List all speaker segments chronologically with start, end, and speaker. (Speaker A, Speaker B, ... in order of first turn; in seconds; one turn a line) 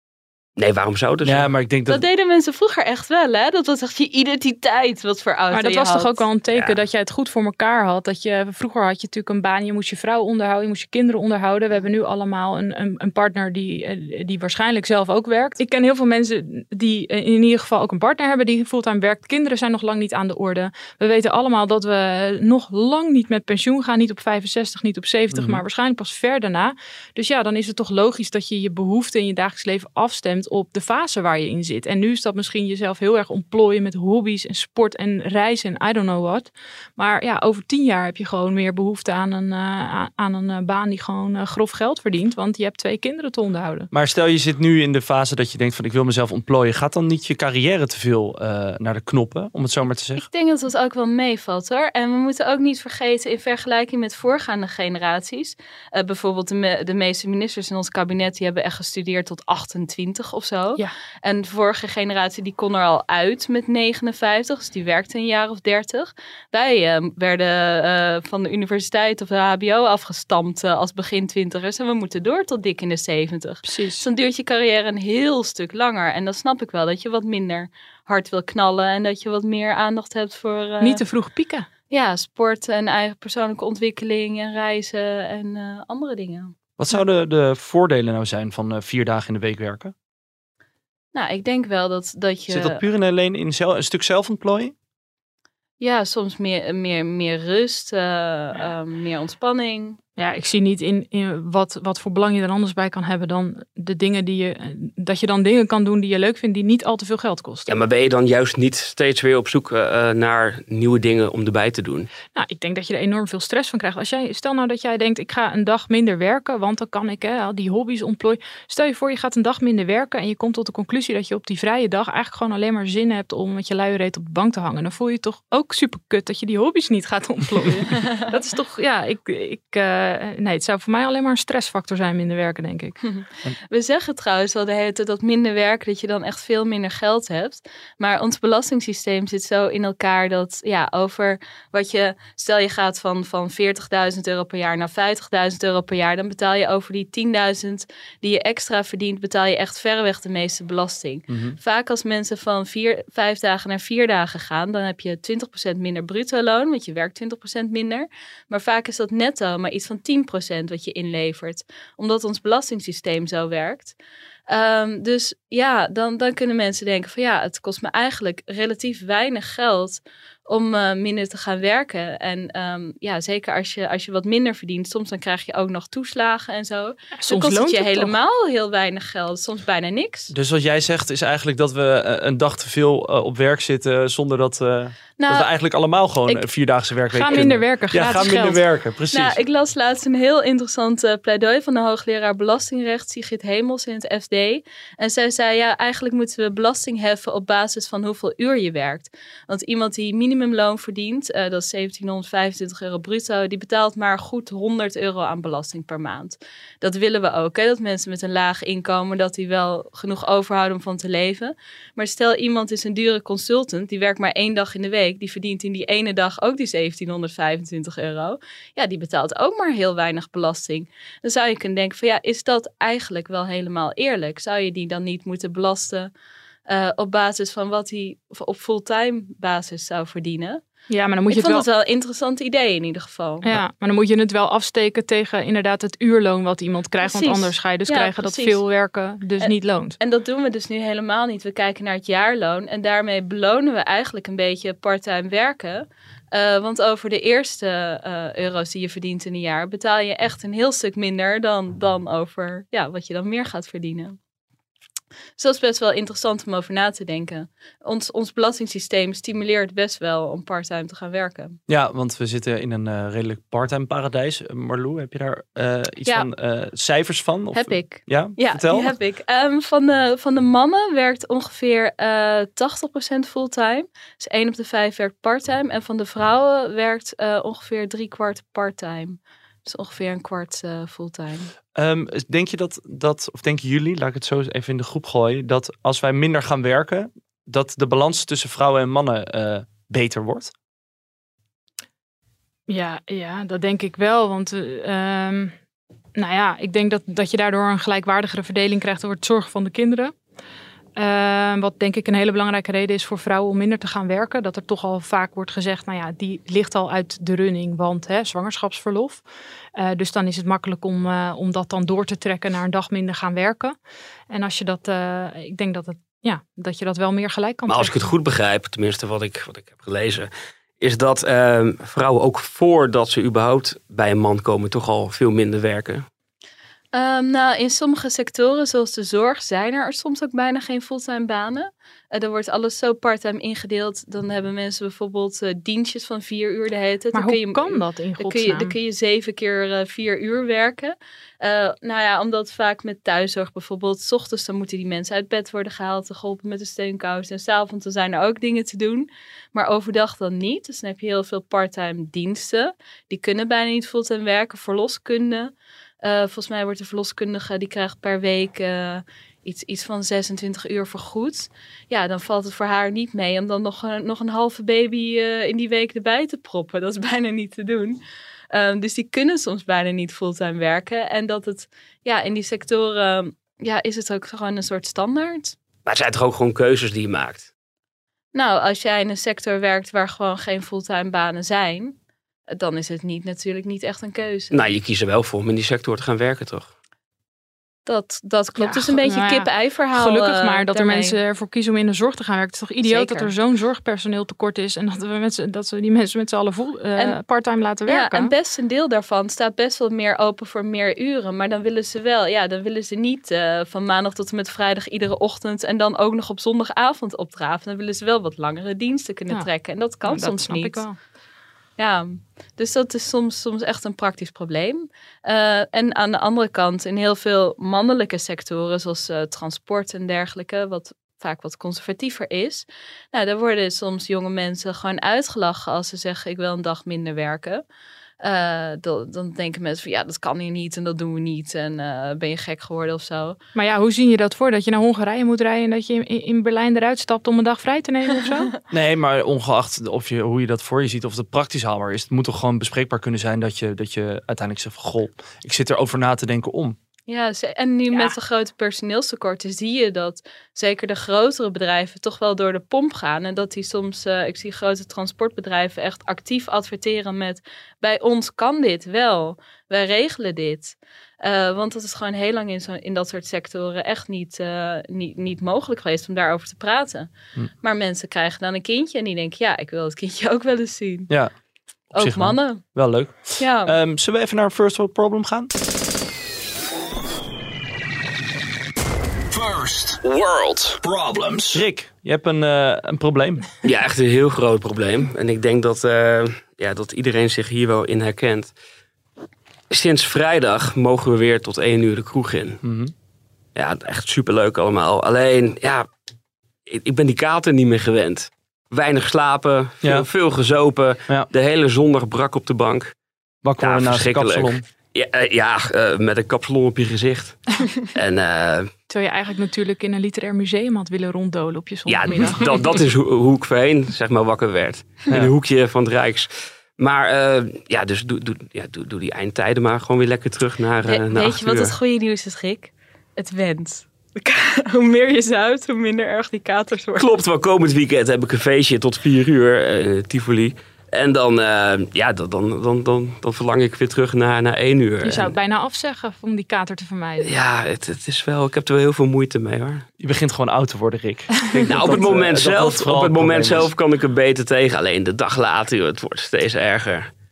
Speaker A: 0.6-1.5
Speaker B: 1.2-2.0
Speaker C: 1.9-6.2
Speaker D: 5.5-43.9
Speaker A: 6.5-6.8
Speaker B: 25.3-25.6
Speaker B: 43.9-50.3
Speaker C: 50.2-81.0
Speaker D: 73.6-74.1
Speaker D: 80.8-81.7
Speaker C: 81.9-86.5
Speaker B: 86.8-89.9
Speaker C: 91.1-92.8
Speaker B: 92.5-94.7
Speaker C: 95.8-100.0
Speaker D: 100.2-107.8
Speaker A: 107.7-112.1
Speaker D: 112.3-133.0
Speaker C: 127.9-128.2
Speaker C: 133.0-163.9
Speaker B: 151.3-151.6
Speaker C: 164.5-180.3
Speaker D: 177.1-178.1
Speaker B: 180.3-189.4
Speaker C: 185.2-185.5
Speaker D: 187.1-188.6
Speaker C: 189.1-226.1
Speaker C: 226.7-230.6
Speaker D: 230.9-231.7
Speaker C: 231.3-233.5
Speaker D: 233.4-240.0
Speaker C: 237.0-238.6
Speaker C: 239.4-254.2
Speaker C: 255.4-261.6
Speaker B: 261.7-268.9
Speaker C: 267.5-281.5
Speaker B: 281.8-290.5
Speaker D: 292.7-295.5
Speaker D: 296.2-300.1
Speaker D: 301.0-309.2
Speaker D: 309.8-313.8
Speaker D: 314.3-318.1
Speaker A: 317.7-326.1
Speaker C: 326.9-368.0
Speaker D: 337.1-338.8
Speaker C: 368.5-375.6
Speaker A: 375.9-377.5
Speaker C: 378.3-381.9
Speaker C: 382.5-384.7
Speaker A: 384.5-386.7
Speaker C: 387.9-391.2
Speaker D: 388.6-398.3
Speaker C: 392.8-393.3
Speaker C: 397.9-410.9
Speaker D: 410.0-411.0
Speaker C: 411.8-427.6
Speaker C: 428.2-433.4
Speaker D: 433.6-438.5
Speaker B: 438.7-446.8
Speaker C: 447.1-467.1
Speaker C: 467.6-471.1
Speaker B: 471.9-475.5
Speaker C: 471.9-472.6
Speaker C: 473.4-473.8
Speaker E: 479.3-481.6
Speaker B: 481.5-483.5
Speaker A: 483.6-488.5
Speaker A: 489.7-492.6
Speaker B: 492.6-492.9
Speaker A: 493.6-495.9
Speaker A: 496.7-502.9
Speaker B: 499.8-500.1
Speaker B: 503.4-504.6
Speaker A: 503.6-508.7
Speaker D: 508.9-512.7
Speaker A: 511.9-521.7
Speaker C: 520.9-527.1
Speaker A: 527.0-535.4
Speaker D: 535.0-537.3
Speaker A: 537.2-539.9
Speaker B: 540.0-543.7
Speaker A: 541.5-547.1
Speaker D: 541.6-542.0